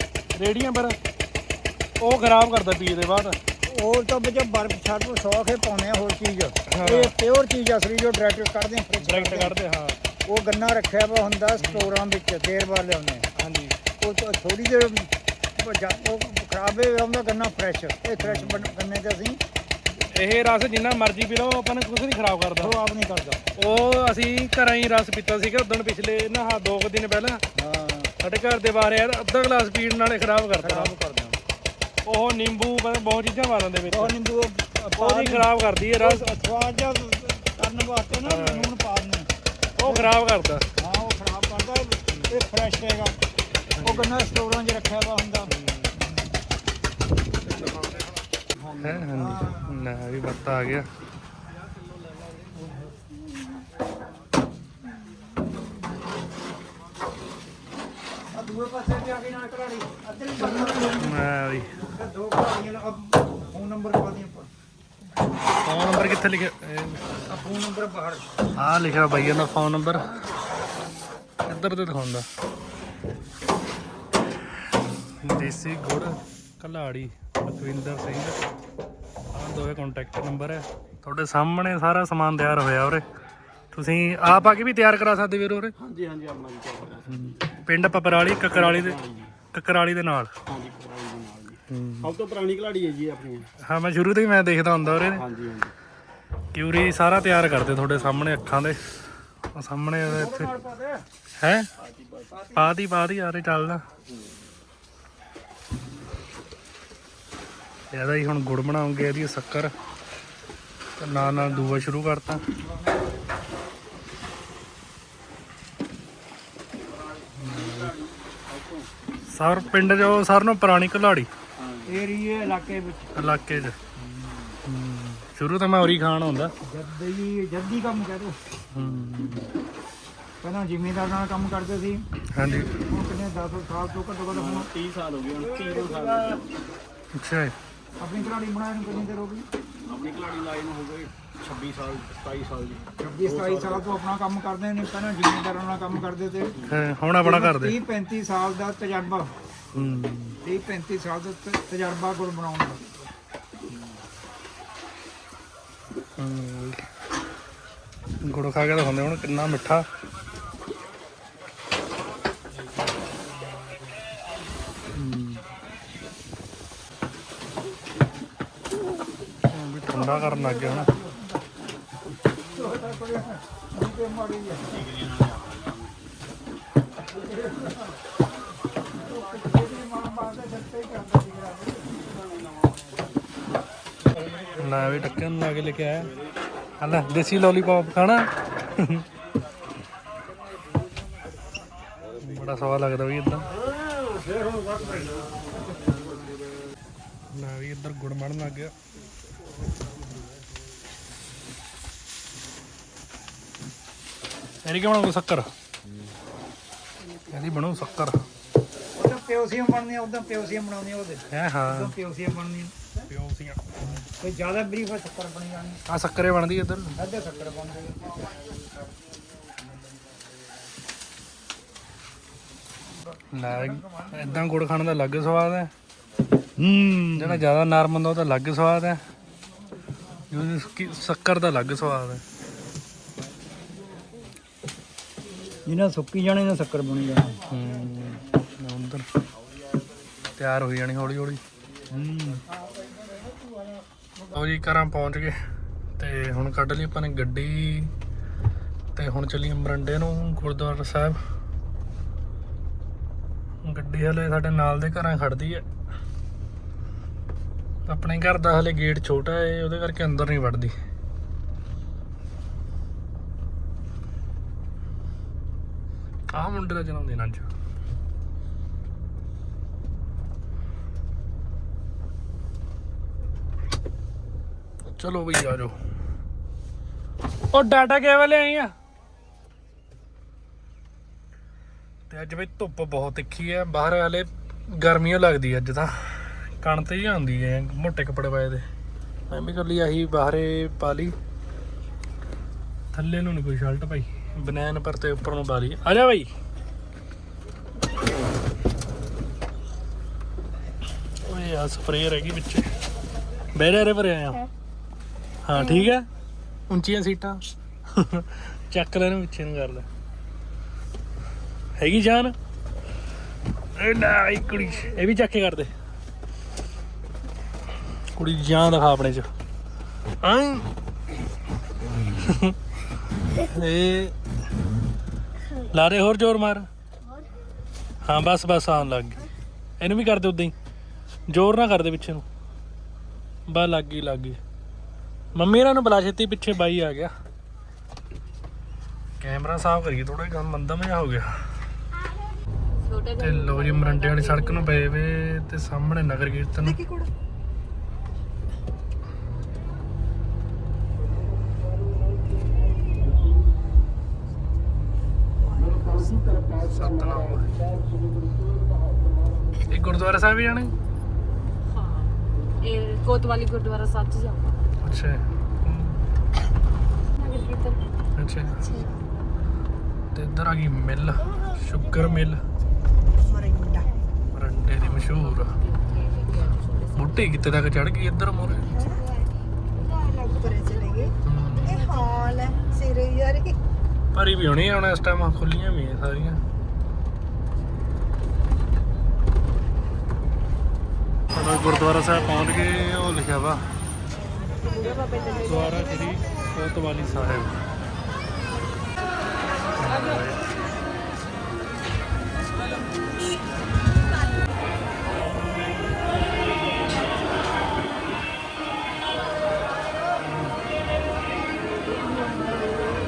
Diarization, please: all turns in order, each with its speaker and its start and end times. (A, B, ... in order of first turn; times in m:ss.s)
0:00.3-0:01.0 A
0:02.0-0:03.4 A
0:03.6-0:09.5 B
0:06.7-0:07.1 A
0:09.0-0:10.0 A
0:10.3-0:13.3 B
0:11.6-0:11.9 A
0:13.4-0:13.8 A
0:14.0-0:19.4 B
0:18.2-0:18.7 A
0:20.0-0:22.7 A
0:22.6-0:23.5 B
0:23.6-0:27.4 A
0:27.6-0:28.1 B
0:28.2-0:30.9 A
0:30.6-0:31.4 B
0:32.0-0:34.1 A
0:33.9-0:39.3 B
0:35.0-0:36.2 A
0:38.2-0:38.7 A
0:39.8-0:40.6 A
0:39.8-0:40.1 B
0:40.8-0:43.2 B
0:42.1-0:42.4 A
0:43.7-0:44.2 A
0:43.8-0:46.4 B
0:45.5-0:45.9 A
0:47.5-0:48.1 A
0:48.8-0:50.9 A
0:48.8-0:49.9 B
0:58.3-1:01.2 B
1:00.9-1:01.8 A
1:01.8-1:04.5 B
1:05.6-1:07.1 A
1:07.3-1:08.3 B
1:08.6-1:10.1 A
1:11.5-1:12.2 A
1:15.2-1:18.4 A
1:19.3-1:23.1 A
1:23.7-1:25.7 A
1:25.8-1:27.3 C
1:27.1-1:29.0 A
1:28.5-1:29.3 C
1:29.5-1:30.3 A
1:30.5-1:33.5 C
1:31.7-1:32.1 A
1:33.6-1:35.3 A
1:35.1-1:35.7 C
1:36.5-1:38.8 A
1:39.5-1:40.5 A
1:40.1-1:41.0 B
1:41.4-1:41.7 A
1:41.8-1:42.3 C
1:42.3-1:42.7 B
1:42.6-1:43.8 A
1:47.9-1:49.7 A
1:51.0-1:52.5 A
1:51.2-1:51.9 B
1:52.5-1:53.2 B
1:57.4-1:57.9 A
1:57.4-1:58.8 C
1:59.3-2:01.3 A
2:01.6-2:01.9 C
2:01.9-2:03.1 B
2:03.2-2:03.8 A
2:04.0-2:04.4 B
2:04.6-2:06.5 A
2:06.6-2:08.4 B
2:08.7-2:09.5 A
2:10.4-2:12.0 B
2:12.3-2:12.7 A
2:12.6-2:14.7 B
2:14.3-2:16.5 C
2:15.7-2:16.4 B
2:17.1-2:17.6 A
2:18.0-2:19.5 B
2:19.8-2:24.0 C
2:23.0-2:26.6 B
2:26.6-2:27.8 A
2:27.2-2:29.3 B
2:29.8-2:30.4 A
2:30.4-2:32.9 B
2:36.2-2:36.9 A
2:38.2-2:39.8 A
2:44.9-2:45.4 A
2:49.5-2:50.9 A
2:49.9-2:51.4 B
2:52.5-2:54.8 B
2:54.8-2:55.9 C
2:59.0-3:02.0 B
3:04.1-3:05.2 B
3:04.6-3:06.1 A
3:06.8-3:09.1 A
3:10.4-3:11.6 B
3:12.2-3:13.5 A
3:13.9-3:15.4 C
3:17.3-3:18.7 A
3:24.6-3:25.5 A
3:27.1-3:27.5 D
3:27.3-3:28.2 A
3:29.0-3:32.7 B
3:31.3-3:31.9 A
3:33.1-3:34.0 A
3:34.0-3:35.8 B
3:35.9-3:37.0 A
3:37.0-3:38.2 B
3:43.3-3:45.7 A
3:43.4-3:44.4 B
3:46.6-3:47.5 B
3:47.2-3:49.0 A
3:50.3-3:52.2 A
3:55.6-3:57.5 B
3:57.5-3:59.1 A
4:00.4-4:01.4 A
4:01.9-4:03.7 B
4:04.3-4:05.4 A
4:06.0-4:07.9 A
4:09.0-4:11.2 A
4:13.6-4:15.6 A
4:17.9-4:20.8 A
4:26.3-4:27.5 A
4:34.9-4:35.8 A
4:37.5-4:38.7 A
4:42.1-4:48.6 A
4:49.3-4:51.1 A
4:52.9-4:56.3 A
5:01.2-5:02.6 A
5:03.5-5:04.5 A
5:05.4-5:06.0 A
5:06.7-5:09.9 A
5:11.8-5:12.4 A
5:13.8-5:15.7 A
5:18.1-5:19.3 A
5:20.2-5:20.7 A
5:22.1-5:22.6 A
5:23.3-5:24.2 A
5:25.6-5:26.7 A
5:28.0-5:30.5 A
5:31.3-5:32.2 A
5:33.5-5:34.4 A
5:35.3-5:37.1 A
5:39.2-5:41.4 A
5:42.8-5:44.8 D
5:43.2-5:46.8 A
5:55.6-5:56.4 E
5:56.6-5:57.5 A
5:59.7-6:00.7 A
6:01.7-6:02.1 D
6:02.6-6:04.6 D
6:04.8-6:06.0 A
6:07.2-6:07.8 D
6:08.2-6:08.7 A
6:10.1-6:12.4 A
6:13.2-6:13.9 E
6:14.3-6:15.6 A
6:15.0-6:17.3 D
6:17.0-6:18.7 A
6:18.7-6:21.1 E
6:21.2-6:21.9 A
6:21.7-6:23.6 E
6:24.1-6:26.4 A
6:31.3-6:33.6 A
6:34.9-6:35.1 D
6:35.4-6:37.6 A
6:39.8-6:40.5 A